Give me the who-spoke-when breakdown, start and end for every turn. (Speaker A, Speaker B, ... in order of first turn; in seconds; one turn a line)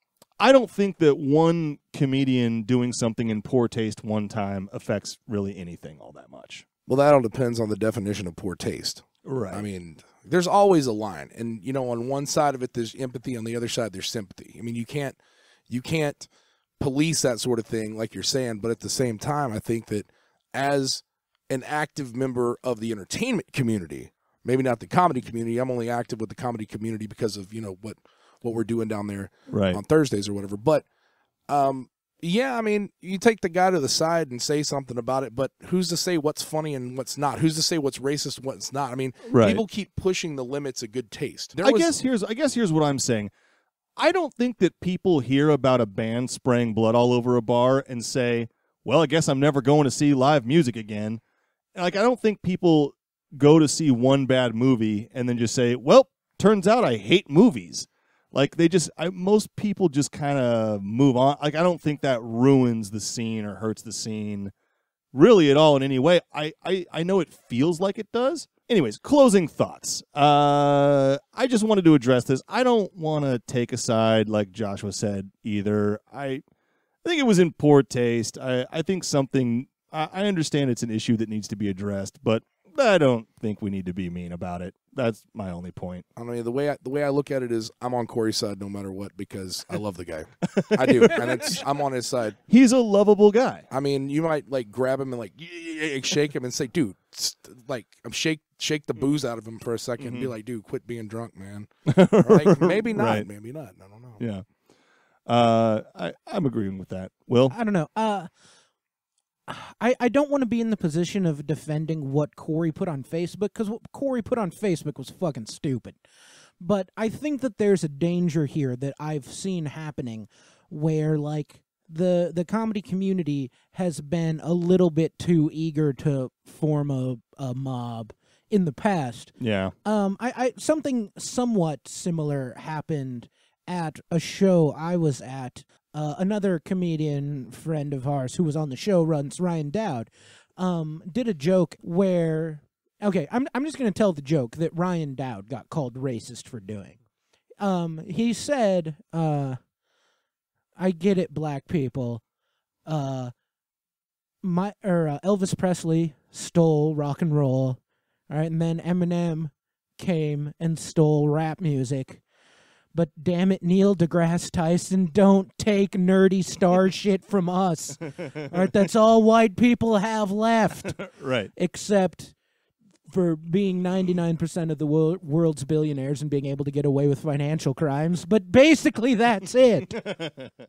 Speaker A: 0.4-6.7
Speaker B: 6.9-15.2
Speaker A: 9.2-9.7
Speaker B: 15.7-16.3
Speaker B: 16.8-30.8
Speaker A: 29.5-29.8
Speaker B: 31.5-41.9
Speaker A: 39.3-39.6
Speaker A: 41.6-43.3
Speaker A: 44.0-51.2
Speaker A: 51.8-64.5
Speaker A: 65.1-76.4
Speaker A: 77.0-86.0
Speaker B: 86.2-92.3
Speaker A: 90.4-91.6
Speaker A: 92.5-93.7
Speaker B: 93.7-104.2
Speaker A: 100.0-100.3
Speaker A: 101.8-103.3
Speaker A: 104.2-104.4
Speaker A: 105.3-107.5
Speaker C: 107.5-108.3
Speaker C: 109.5-116.0
Speaker C: 116.6-147.0
Speaker A: 129.4-129.7
Speaker C: 147.6-149.6
Speaker C: 150.8-152.2
Speaker C: 152.8-153.3
Speaker C: 154.4-162.2
Speaker C: 162.9-171.0
Speaker A: 170.8-171.5
Speaker C: 171.5-172.3
Speaker C: 173.1-179.9
Speaker A: 179.9-180.5